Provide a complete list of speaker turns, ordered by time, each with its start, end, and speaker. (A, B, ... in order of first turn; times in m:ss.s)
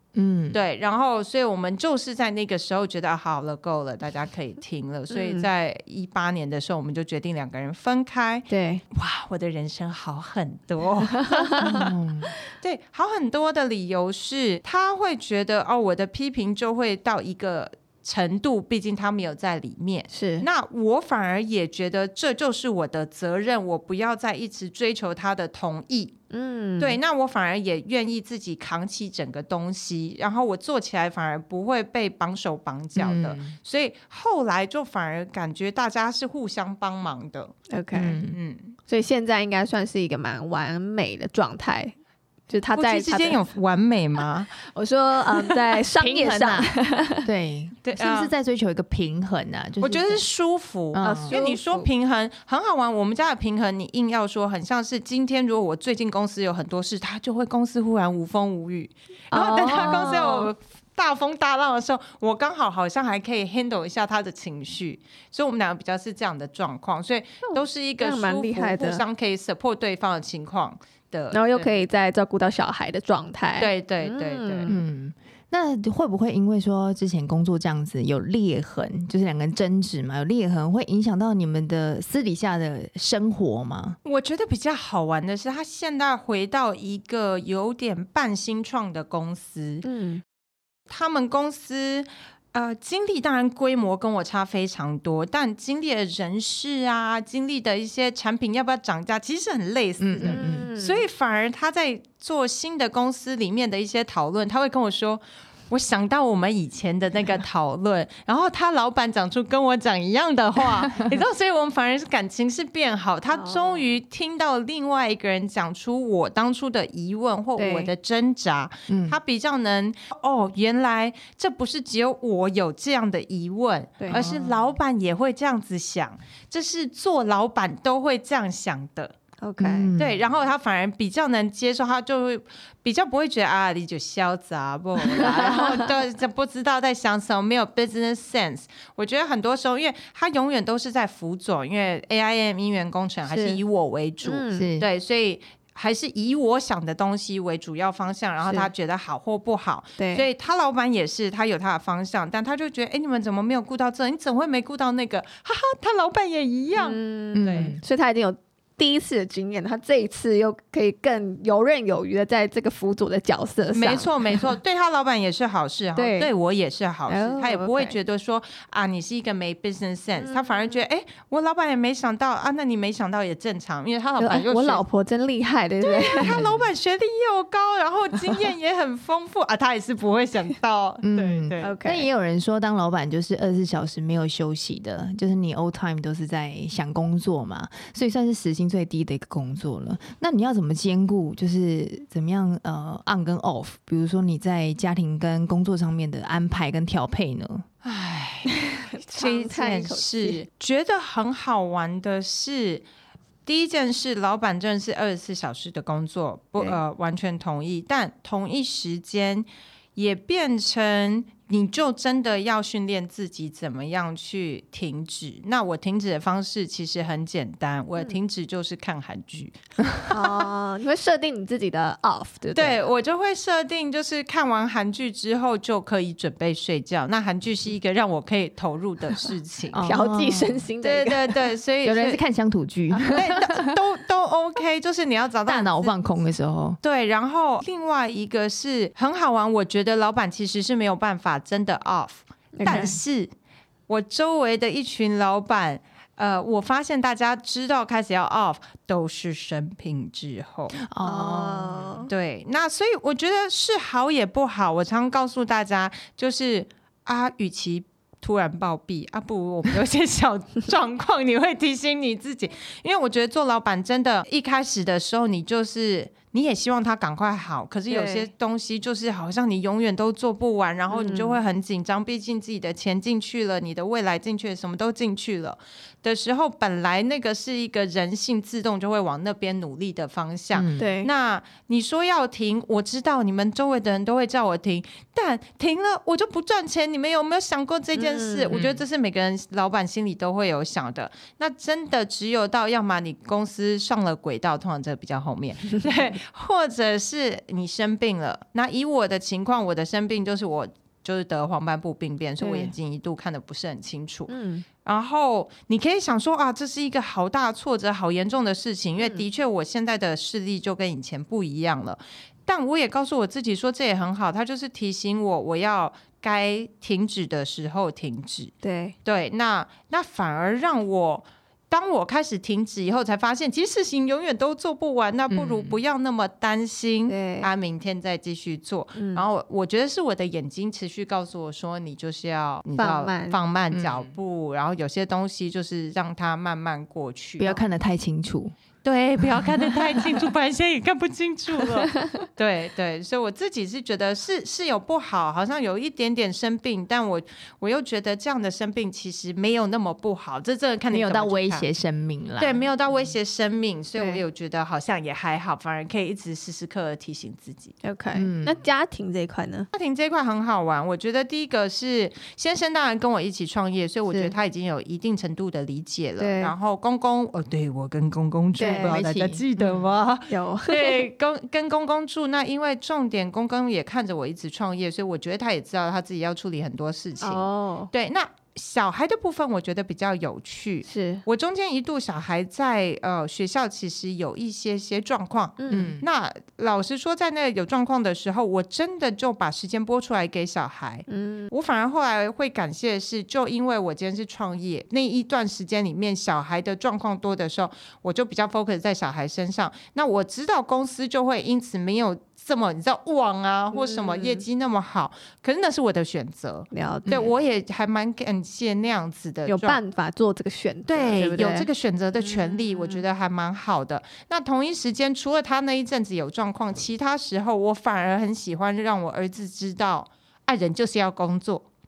0:00.1-0:00.6 A
0:00.5-0:11.9 B
0:05.1-0:05.4 C
0:08.5-0:08.8 C
0:11.2-0:11.9 C
0:11.6-0:12.3 A
0:12.5-0:26.1 B
0:20.1-0:20.5 C
0:26.3-0:27.0 C
0:26.8-0:37.5 B
0:32.9-0:33.6 A
0:37.7-0:38.2 C
0:37.9-0:38.4 A
0:38.3-0:38.7 B
0:38.9-0:41.9 C
0:42.5-0:43.4 C
0:42.7-0:44.5 B
0:44.6-0:47.3 C
0:46.0-0:46.7 A
0:47.2-0:50.2 A
0:47.8-0:48.3 B
0:49.8-1:11.8 B
0:50.9-0:51.3 A
0:51.0-0:51.9 C
0:59.3-1:00.5 C
1:07.4-1:09.0 C
1:11.3-1:14.8 C
1:13.6-1:14.7 B
1:14.7-1:24.0 A
1:24.0-1:29.8 B
1:29.8-1:30.2 C
1:30.9-2:09.1 B
1:40.0-1:40.7 A
1:40.2-1:41.0 C
1:53.3-1:53.8 C
1:57.6-1:57.9 C
1:58.9-1:59.2 A
2:04.1-2:04.6 A
2:09.4-2:09.9 C
2:09.6-2:10.2 A
2:10.0-2:37.8 B
2:15.1-2:15.8 C
2:23.3-2:23.6 C
2:24.2-2:24.7 C
2:24.5-2:24.9 A
2:28.4-2:28.7 C
2:30.0-2:30.2 C
2:36.8-2:44.5 C
2:37.3-2:37.8 A
2:43.7-2:54.8 B
2:46.0-2:46.3 C
2:47.1-2:47.9 C
2:50.2-2:50.8 C
2:54.2-2:56.4 C
2:55.8-3:01.7 B
2:56.3-2:56.6 A
3:01.0-3:17.6 A
3:01.6-3:02.1 C
3:17.8-3:22.8 B
3:18.5-3:20.4 C
3:23.4-3:40.4 B
3:40.1-3:42.8 C
3:42.5-3:49.8 B
3:49.7-3:50.6 A
3:49.8-3:51.3 C
3:50.8-3:52.2 B
3:51.8-3:53.7 A
3:52.9-3:53.3 C
3:53.1-3:56.0 B
3:55.4-3:56.8 A
3:56.8-4:03.3 B
4:02.5-4:03.0 C
4:03.9-4:10.8 B
4:10.8-4:12.1 A
4:11.0-4:12.1 C
4:12.1-5:04.3 B
4:27.9-4:28.3 C
4:30.9-4:31.4 C
4:40.5-4:40.8 A
4:40.8-4:41.1 C
4:47.9-4:48.6 C
4:48.5-4:48.8 A
5:02.4-5:02.7 C
5:04.3-5:04.6 C
5:04.8-5:18.5 B
5:09.0-5:09.2 C
5:18.6-5:18.9 C
5:19.0-5:37.6 B
5:25.3-5:25.8 A
5:27.1-5:27.5 C
5:29.0-5:29.2 C
5:32.8-5:33.4 C
5:33.7-5:34.1 A
5:37.4-5:38.5 A
5:38.8-5:51.7 B
5:50.9-5:52.6 A
5:52.4-5:57.8 B
5:53.9-5:54.2 C
5:57.8-5:59.7 C
5:58.1-5:58.6 A
5:59.7-6:49.8 B
6:04.1-6:04.3 C
6:06.2-6:06.5 C
6:08.6-6:09.0 C
6:08.6-6:09.8 A
6:10.3-6:11.0 C
6:17.2-6:17.9 C
6:20.8-6:21.2 C
6:25.6-6:26.0 C
6:25.7-6:26.0 A
6:31.1-6:31.5 C
6:43.7-6:44.4 C
6:46.7-6:47.3 C
6:49.5-6:51.7 C
6:50.9-7:01.6 B
6:52.2-6:53.0 C